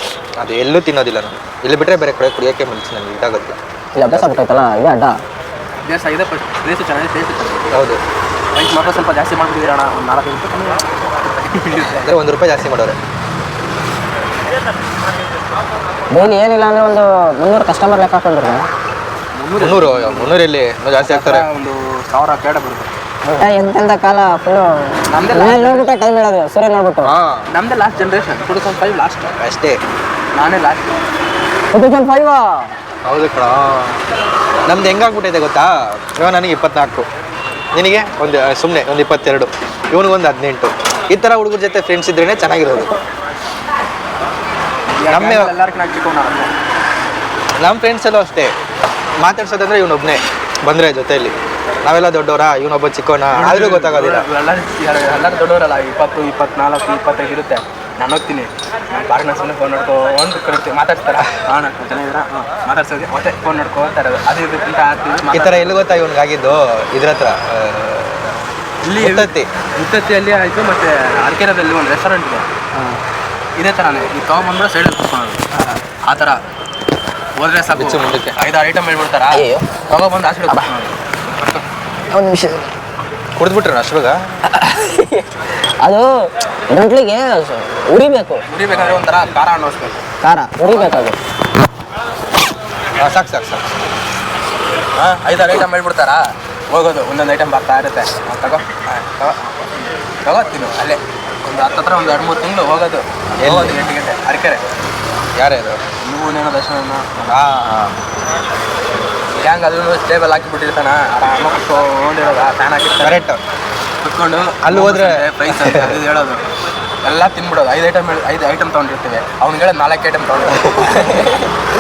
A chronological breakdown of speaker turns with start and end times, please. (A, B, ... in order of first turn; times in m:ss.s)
0:00.4-0:04.4 A
0:04.0-0:05.2 B
0:05.8-0:07.7 C
0:07.7-0:08.0 A
0:08.5-0:12.1 C
0:11.9-0:13.0 A
0:16.1-0:18.7 B
0:19.3-0:20.4 C
0:19.6-0:21.5 A
0:21.0-0:22.9 C
0:23.3-0:27.1 B
0:25.1-0:25.9 C
0:27.0-0:27.5 A
0:27.5-0:29.4 C
0:29.4-0:29.8 A
0:30.3-0:31.0 C
0:31.7-0:32.8 B
0:33.0-0:34.0 A
0:34.7-0:37.1 A
0:37.7-0:43.0 A
0:45.0-0:46.5 C
0:45.1-0:45.5 A
0:47.6-0:48.5 A
0:49.2-0:54.3 A
0:53.3-1:05.8 C
1:05.3-1:08.4 A
1:08.8-1:12.5 C
1:09.0-1:09.4 A
1:13.6-1:15.4 C
1:16.0-1:16.4 C
1:17.4-1:21.6 C
1:17.8-1:18.4 A
1:19.3-1:19.7 B
1:22.1-1:22.6 B
1:23.4-1:24.2 A
1:24.5-1:25.3 B
1:25.8-1:28.4 B
1:28.5-1:30.0 C
1:30.2-1:31.2 B
1:30.6-1:31.1 C
1:33.0-1:33.8 A
1:35.0-1:44.7 C
1:43.4-1:43.8 A
1:45.4-1:45.8 A
1:46.0-1:47.4 C
1:47.3-1:48.0 A
1:49.3-1:53.2 C
1:53.0-1:53.4 A
1:54.0-1:56.4 C
1:54.6-1:56.0 A
1:57.0-2:01.5 C
2:00.8-2:01.2 A